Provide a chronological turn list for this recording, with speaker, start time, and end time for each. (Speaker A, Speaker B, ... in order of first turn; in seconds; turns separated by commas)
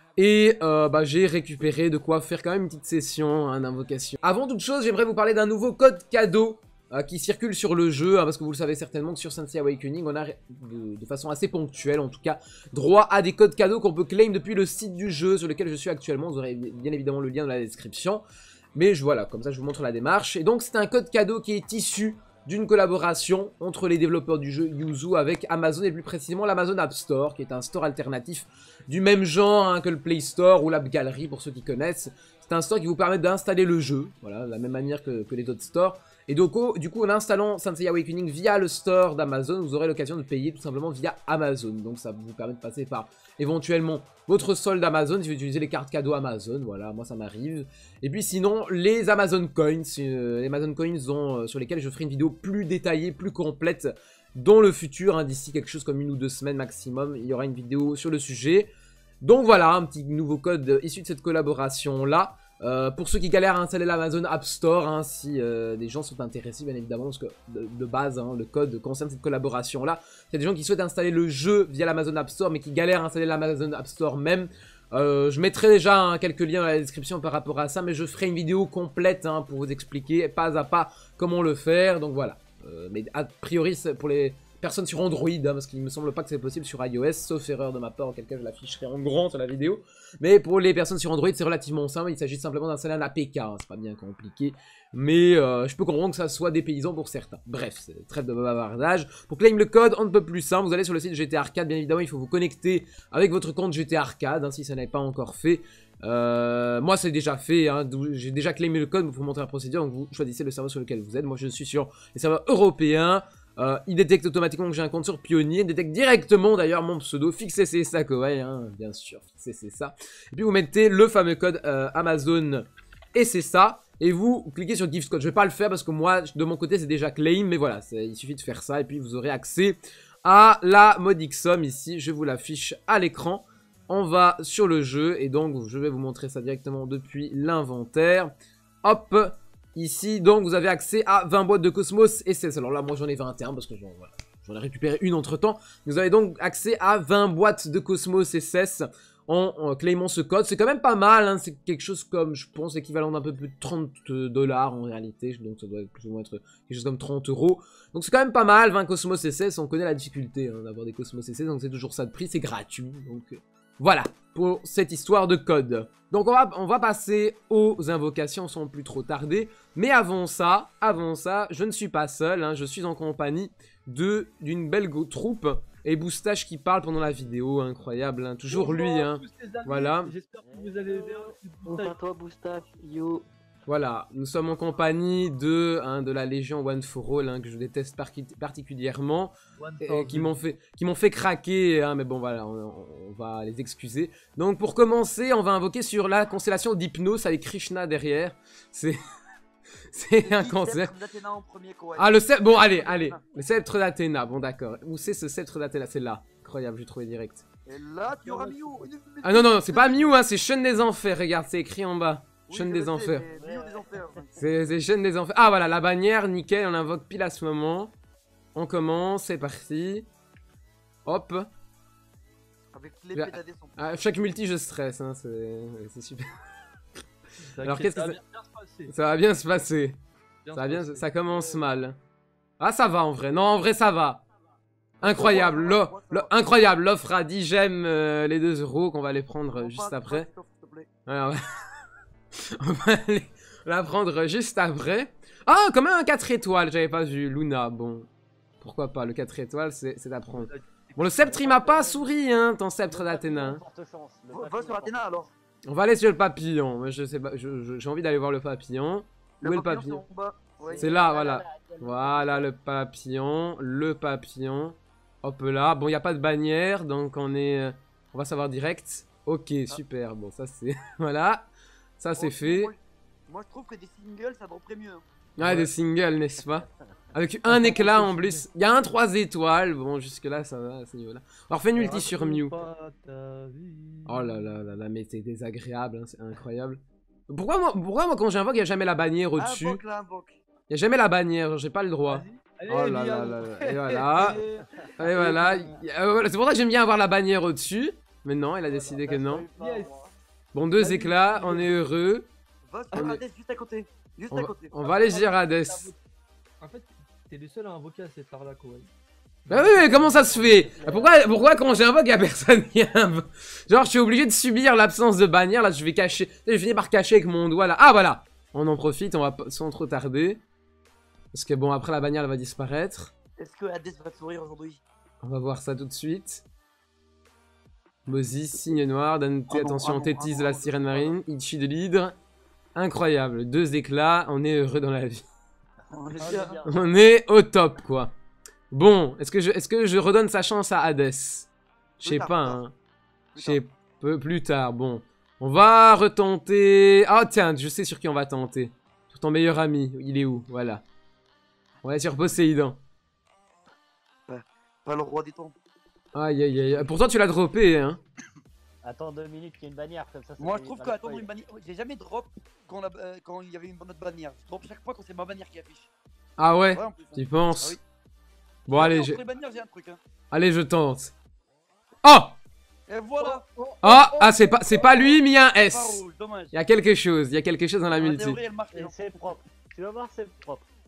Speaker A: 0.2-18.2, Speaker A: 18.8-58.7, Speaker A: 59.2-138.3, Speaker A: 138.8-180.1, Speaker B: 178.5-182.0, Speaker C: 180.4-183.1, Speaker A: 183.7-199.0, Speaker B: 189.6-190.4, Speaker A: 199.9-200.9, Speaker D: 200.2-203.2, Speaker A: 202.0-207.4, Speaker D: 207.7-210.2, Speaker A: 209.2-213.2, Speaker D: 212.5-214.3, Speaker C: 213.3-214.2, Speaker A: 214.4-217.9, Speaker A: 218.6-220.1, Speaker A: 221.1-221.5, Speaker D: 222.7-223.8, Speaker A: 223.1-226.3, Speaker B: 227.4-228.9, Speaker A: 227.6-228.2, Speaker A: 228.9-230.0, Speaker B: 230.4-231.4, Speaker A: 230.5-232.0, Speaker A: 232.6-234.2, Speaker A: 235.0-240.3, Speaker D: 235.0-236.4, Speaker D: 239.6-240.9, Speaker A: 241.1-241.4, Speaker A: 242.6-248.1, Speaker A: 248.6-253.6, Speaker B: 250.3-252.0, Speaker C: 251.3-252.0, Speaker C: 252.9-255.0, Speaker D: 254.3-255.3, Speaker A: 255.7-260.0, Speaker D: 259.4-260.9, Speaker C: 260.7-262.5, Speaker A: 260.7-271.5, Speaker A: 272.0-272.7, Speaker D: 272.2-275.0, Speaker A: 275.4-282.6, Speaker B: 275.4-275.7, Speaker B: 277.4-278.4, Speaker B: 281.7-284.5, Speaker A: 284.1-289.8, Speaker D: 289.4-290.4, Speaker A: 290.7-294.4, Speaker B: 292.1-295.5, Speaker A: 295.0-299.4, Speaker C: 295.0-295.7, Speaker C: 298.7-300.1, Speaker B: 299.6-300.1, Speaker A: 300.5-302.3, Speaker B: 300.8-301.8, Speaker D: 302.7-304.9, Speaker A: 302.9-303.2, Speaker A: 304.3-305.9, Speaker B: 304.8-306.0, Speaker B: 306.6-308.9, Speaker B: 309.5-310.7, Speaker A: 309.5-320.4, Speaker C: 310.6-311.2, Speaker A: 321.3-323.1, Speaker D: 323.4-324.8, Speaker A: 325.2-326.4, Speaker A: 328.1-332.1, Speaker D: 329.5-331.2, Speaker A: 332.8-335.2, Speaker D: 335.9-336.6, Speaker C: 336.1-336.9, Speaker B: 336.2-336.5, Speaker A: 336.6-338.1, Speaker A: 338.7-341.5, Speaker D: 342.0-342.6, Speaker A: 342.0-342.7, Speaker D: 343.4-343.6, Speaker A: 343.4-350.8, Speaker A: 351.8-352.8, Speaker D: 354.3-355.6, Speaker A: 356.1-358.0, Speaker C: 358.8-361.3, Speaker D: 360.4-365.9, Speaker A: 366.4-367.8, Speaker D: 366.7-367.8, Speaker A: 368.7-369.2, Speaker D: 368.7-370.0, Speaker A: 370.3-371.1, Speaker A: 372.0-372.4, Speaker D: 372.9-376.6, Speaker B: 373.3-373.9, Speaker A: 373.8-378.4, Speaker D: 377.9-379.3, Speaker C: 378.7-380.6